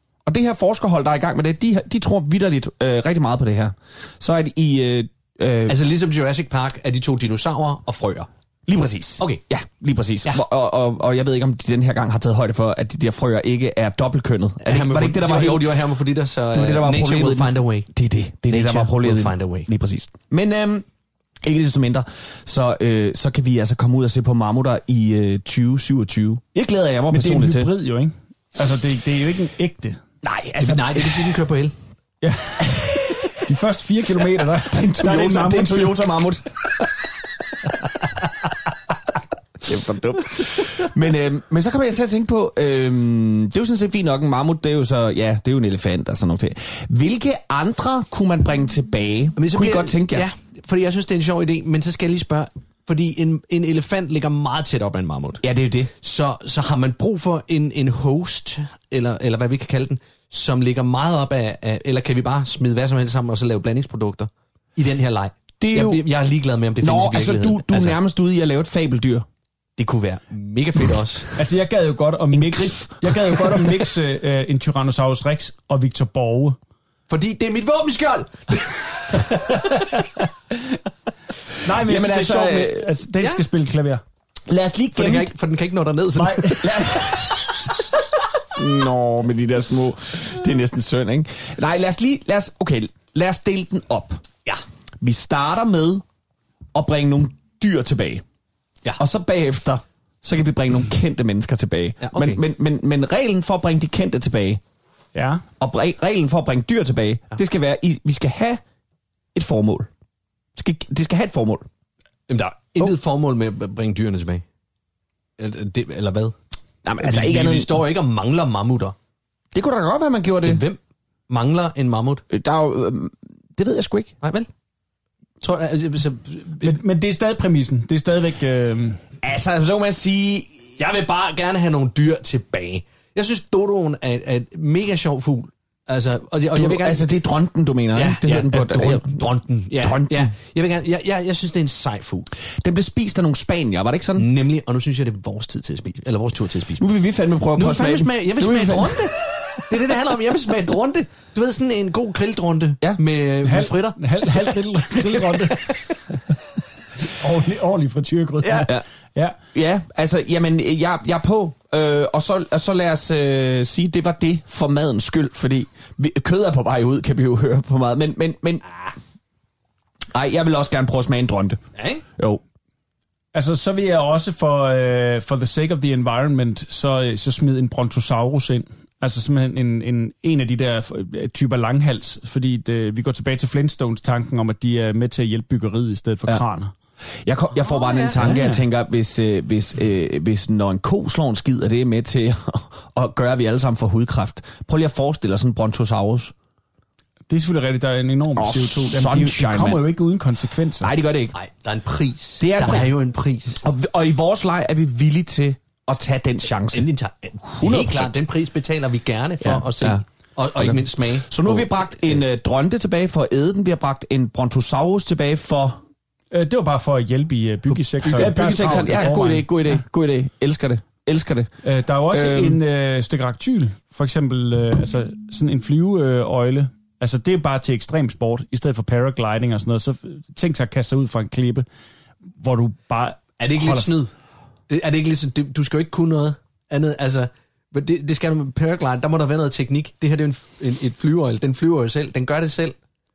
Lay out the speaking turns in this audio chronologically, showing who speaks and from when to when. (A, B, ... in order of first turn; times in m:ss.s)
0:00.3-0:05.8 A
0:05.7-0:08.3 B
0:08.7-0:15.8 A
0:14.6-0:17.9 B
0:16.5-0:20.9 A
0:18.5-0:19.7 B
0:21.4-0:27.7 A
0:27.1-0:30.0 C
0:30.2-0:31.4 A
0:30.6-0:31.7 B
0:32.2-0:32.9 C
0:33.4-0:36.1 C
0:34.6-0:36.5 A
0:39.6-0:50.3 A
0:49.4-0:55.4 B
0:55.4-0:55.9 A
0:56.0-1:08.0 B
1:05.6-1:06.1 A
1:06.8-1:09.3 A
1:09.8-1:11.3 B
1:11.4-1:16.6 C
1:12.3-1:13.9 A
1:17.1-1:19.7 B
1:19.4-1:20.2 C
1:21.6-1:24.0 C
1:21.7-1:22.9 A
1:23.2-1:23.4 B
1:24.5-1:25.3 A
1:25.0-1:26.7 B
1:26.2-1:26.8 C
1:26.6-1:27.5 A
1:28.6-1:34.2 A
1:35.0-1:36.0 A
1:36.7-1:38.2 A
1:39.0-1:44.6 A
1:42.0-1:42.4 B
1:45.2-1:45.4 C
1:45.6-1:48.6 A
1:49.3-1:49.9 A
1:50.6-1:51.7 A
1:52.3-1:54.4 B
1:55.4-1:56.4 B
1:56.8-1:57.8 A
1:57.0-1:59.0 B
1:59.5-2:00.6 A
2:00.4-2:02.2 B
2:02.3-2:04.2 A
2:04.2-2:04.5 B
2:05.4-2:06.8 B
2:06.6-2:09.0 C
2:09.2-2:10.7 A
2:10.8-2:17.1 B
2:16.5-2:19.3 A
2:17.9-2:22.3 B
2:19.8-2:20.3 A
2:22.5-2:24.3 A
2:24.2-2:26.9 B
2:26.8-2:29.1 A
2:27.6-2:35.8 B
2:33.4-2:35.7 C
2:37.0-2:39.4 C
2:38.4-2:38.8 A
2:39.5-2:48.6 A
2:50.1-2:51.6 A
2:51.8-2:52.0 B
2:53.3-3:06.7 C
3:07.2-3:16.3 A
3:07.6-3:08.4 B
3:08.2-3:08.6 C
3:17.3-3:20.9 C
3:18.4-3:19.9 A
3:20.8-3:21.4 A
3:21.3-3:23.6 B
3:22.4-3:22.9 A
3:23.6-3:26.9 A
3:26.7-3:32.2 B
3:27.6-3:28.1 A
3:29.4-3:35.8 A
3:36.3-3:39.8 C
3:38.0-3:41.5 A
3:41.6-3:51.7 C
3:42.1-3:42.6 A
3:52.4-3:53.9 C
3:53.4-3:54.1 B
3:54.7-4:02.8 B